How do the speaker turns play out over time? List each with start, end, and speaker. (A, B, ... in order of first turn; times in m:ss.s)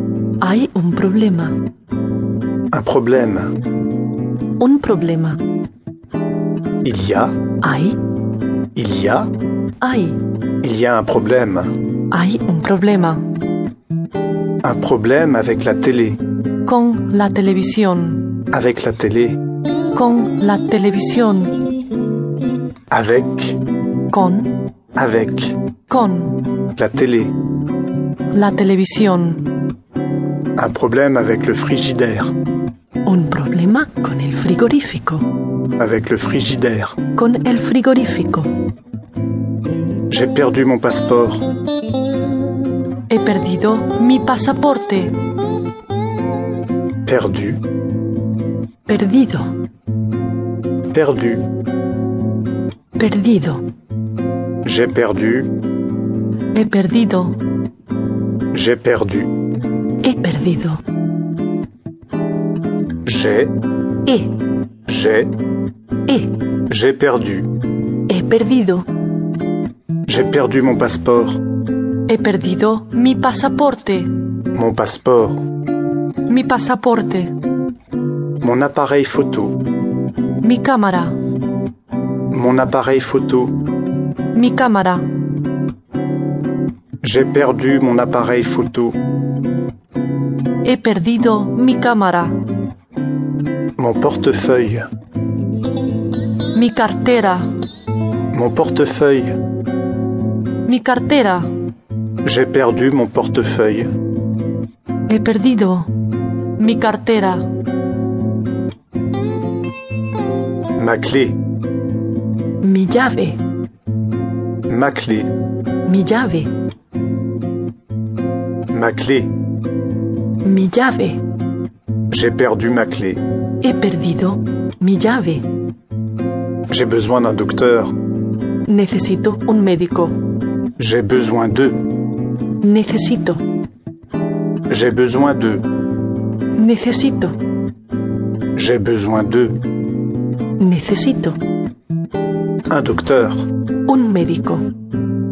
0:00.4-0:01.5 A
0:02.7-0:03.5 B
0:04.6-0:05.4 A
0:06.8-0:07.4 B
0:07.6-0:08.0 A
0:08.8-0:09.3 B
0:09.8-0:10.2 A
0:10.6-0:11.7 B
0:12.1-0:13.2 A
0:14.6-0:16.2 B
0:16.6-0:18.4 A
0:18.5-0:19.4 B
0:19.9-0:21.6 A
0:22.9-0:23.6 B
0:24.1-0:24.5 A
0:25.0-0:25.6 B
0:25.9-0:26.5 A
0:26.7-0:27.3 B
0:28.3-0:29.5 A
0:30.6-0:32.3 B
0:33.0-0:35.3 A
0:35.8-0:37.0 B
0:37.1-0:38.5 A
0:40.1-0:41.5 B
0:43.1-0:45.2 A
0:47.0-0:47.6 B
0:48.9-0:49.5 A
0:50.9-0:51.5 B
0:53.0-0:53.6 A
0:54.6-0:55.5 B
0:56.5-0:57.4 A
0:58.5-0:59.3 B
1:00.0-1:00.8 A
1:03.0-1:03.6 B
1:04.9-1:05.3 B
1:06.7-1:07.5 B
1:08.1-1:08.9 A
1:10.1-1:11.4 B
1:12.1-1:14.1 A
1:14.5-1:15.5 B
1:16.3-1:17.3 A
1:18.4-1:19.6 B
1:20.4-1:21.2 A
1:22.3-1:23.6 B
1:24.3-1:25.0 A
1:27.0-1:29.0 B
1:30.6-1:32.4 A
1:33.8-1:34.9 B
1:36.5-1:37.5 A
1:38.3-1:39.4 B
1:40.6-1:41.5 A
1:42.2-1:43.9 B
1:45.1-1:45.9 A
1:46.6-1:47.5 A
1:50.8-1:51.4 B
1:52.6-1:53.4 A
1:54.7-1:55.3 B
1:55.8-1:56.5 A
1:58.7-1:59.3 B
2:00.4-2:01.2 A
2:02.1-2:03.2 B
2:03.6-2:05.4 A
2:06.7-2:07.9 B
2:08.7-2:10.2 A
2:10.8-2:11.8 B
2:12.6-2:13.4 A
2:14.7-2:15.6 B
2:16.6-2:17.3 A
2:18.6-2:19.6 B
2:20.6-2:21.4 A
2:22.7-2:23.5 B
2:23.9-2:24.7 A